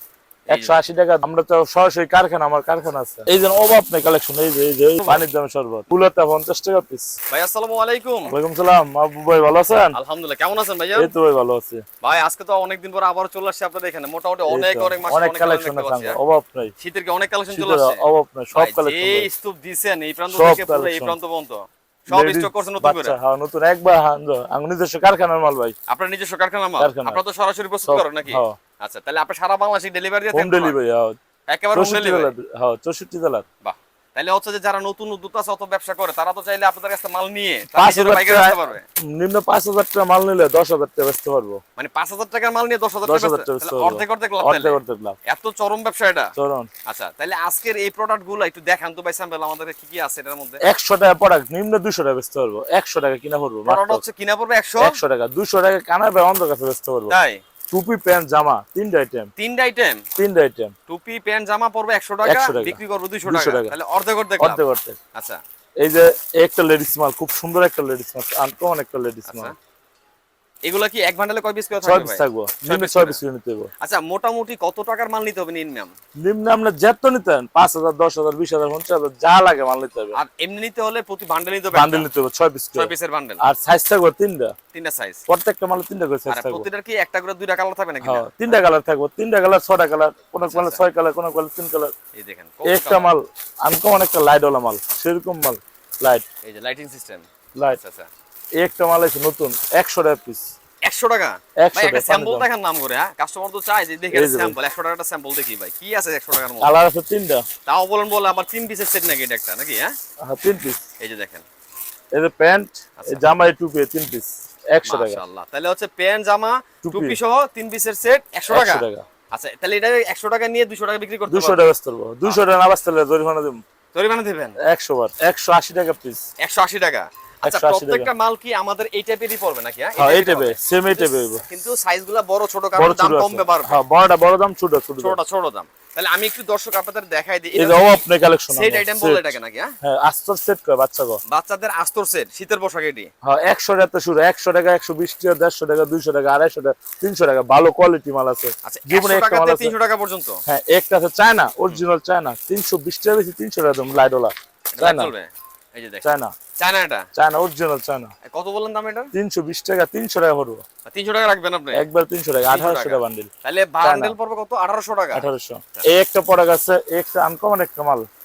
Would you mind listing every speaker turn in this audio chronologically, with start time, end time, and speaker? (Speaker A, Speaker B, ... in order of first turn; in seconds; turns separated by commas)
Speaker A: 0.5-0.8, Speaker B: 0.5-7.1, Speaker A: 7.3-8.3, Speaker B: 8.3-9.9, Speaker A: 9.9-11.1, Speaker B: 10.9-11.8, Speaker A: 12.0-16.2, Speaker B: 14.5-16.7, Speaker A: 16.8-18.0, Speaker B: 17.5-19.3, Speaker A: 18.5-23.1, Speaker B: 20.3-21.1, Speaker B: 22.1-25.7, Speaker A: 25.9-30.8, Speaker B: 26.8-27.2, Speaker B: 27.9-28.6, Speaker B: 30.3-31.2, Speaker A: 31.5-32.3, Speaker B: 31.7-33.4, Speaker A: 33.6-38.8, Speaker B: 37.7-41.6, Speaker A: 41.8-46.3, Speaker B: 43.0-45.2, Speaker B: 46.4-46.7, Speaker A: 46.9-50.6, Speaker B: 50.6-54.0, Speaker A: 53.6-54.9, Speaker B: 54.8-57.1, Speaker A: 57.1-57.4, Speaker B: 57.7-59.3, Speaker A: 59.4-60.0, Speaker B: 60.2-60.7, Speaker A: 60.9-64.6, Speaker B: 62.2-63.7, Speaker B: 64.4-65.0, Speaker B: 65.8-69.5, Speaker A: 69.3-69.5, Speaker A: 70.6-73.2, Speaker B: 71.8-73.7, Speaker A: 73.8-75.9, Speaker B: 76.2-80.2, Speaker A: 80.1-82.1, Speaker B: 81.7-84.5, Speaker A: 82.7-83.4, Speaker A: 84.7-85.2, Speaker B: 85.3-86.7, Speaker A: 86.3-88.6, Speaker B: 88.0-91.9, Speaker A: 90.4-90.8, Speaker A: 92.1-93.1, Speaker B: 92.6-96.2, Speaker A: 96.4-97.2, Speaker A: 97.8-98.1, Speaker B: 98.6-100.5, Speaker A: 100.8-106.7, Speaker B: 101.6-102.5, Speaker B: 104.1-104.5, Speaker B: 106.6-107.4, Speaker A: 107.7-109.9, Speaker B: 110.2-110.8, Speaker A: 111.0-111.4, Speaker B: 112.1-115.2, Speaker A: 114.8-121.7, Speaker B: 116.8-117.2, Speaker B: 118.5-119.0, Speaker B: 121.3-123.6, Speaker A: 123.9-124.6, Speaker B: 124.6-126.2, Speaker A: 126.4-133.7, Speaker B: 127.4-128.1, Speaker B: 130.0-131.4, Speaker B: 132.8-135.2, Speaker A: 135.0-137.8, Speaker B: 137.6-141.2, Speaker A: 138.5-139.7, Speaker A: 141.3-143.1, Speaker B: 143.2-149.7, Speaker A: 148.6-150.4, Speaker B: 150.5-155.1, Speaker A: 154.7-156.0, Speaker B: 156.0-156.3, Speaker A: 156.6-157.0, Speaker B: 157.1-158.1, Speaker A: 158.2-159.1, Speaker B: 159.1-160.6, Speaker A: 160.9-161.8, Speaker B: 161.7-163.3, Speaker A: 162.5-165.8, Speaker B: 163.8-164.1, Speaker B: 165.1-168.1